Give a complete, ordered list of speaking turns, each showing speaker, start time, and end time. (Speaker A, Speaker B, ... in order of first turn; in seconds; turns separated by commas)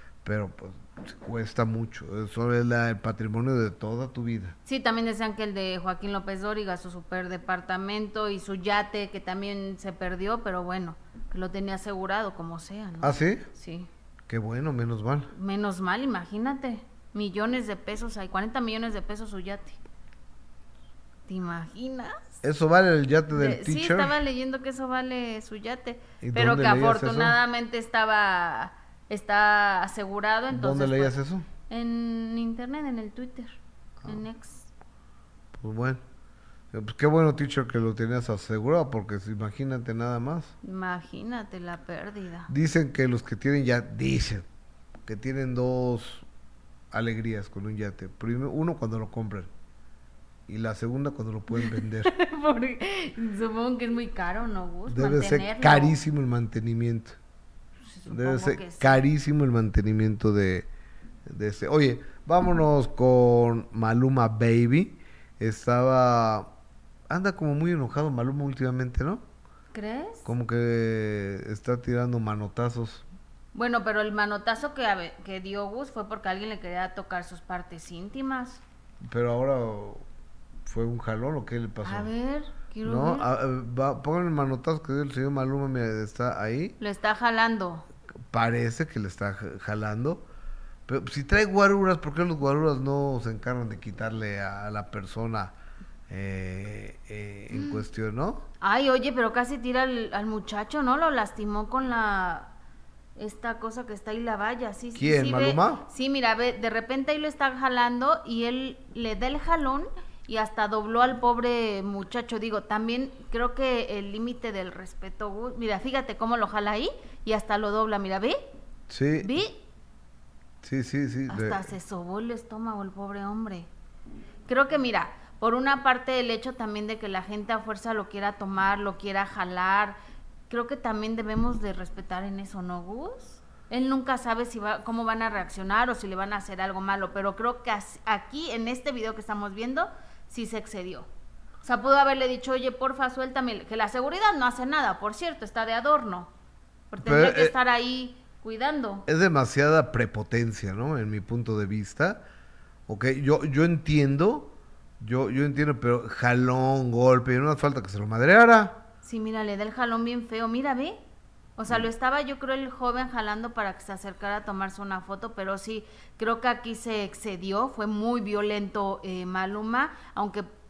Speaker A: 0.2-4.5, Speaker B: 4.7-13.9, Speaker A: 13.0-13.5, Speaker A: 14.3-15.3, Speaker B: 15.3-19.8, Speaker B: 21.3-22.4, Speaker A: 22.4-24.2, Speaker B: 23.3-31.2, Speaker A: 26.2-27.4, Speaker A: 30.5-31.5, Speaker B: 31.7-34.7, Speaker A: 35.5-36.0, Speaker A: 36.7-40.5, Speaker B: 40.6-42.5, Speaker A: 42.5-44.5, Speaker A: 45.1-46.3, Speaker A: 46.9-49.5, Speaker A: 50.5-52.1, Speaker B: 51.5-56.0, Speaker A: 54.9-57.2, Speaker B: 57.9-59.0, Speaker A: 58.1-60.7, Speaker A: 61.3-66.5, Speaker A: 67.1-69.2, Speaker B: 69.7-70.3, Speaker A: 70.2-73.0, Speaker B: 73.5-78.6, Speaker A: 79.0-80.0, Speaker A: 80.7-82.1, Speaker B: 81.8-83.3, Speaker A: 82.8-86.8, Speaker B: 86.8-87.8, Speaker A: 88.3-90.2, Speaker A: 90.9-95.5, Speaker A: 96.1-98.5, Speaker B: 97.5-97.8, Speaker B: 98.6-102.5, Speaker B: 103.2-118.4, Speaker A: 105.0-105.8, Speaker A: 118.9-119.3, Speaker B: 119.2-119.6, Speaker A: 120.6-121.6, Speaker B: 121.3-123.7, Speaker B: 124.5-130.0, Speaker B: 130.5-141.1, Speaker B: 141.6-146.3, Speaker B: 146.9-149.1, Speaker A: 147.0-147.5, Speaker A: 149.1-152.2, Speaker A: 152.9-158.8, Speaker B: 159.0-161.0, Speaker B: 161.6-170.5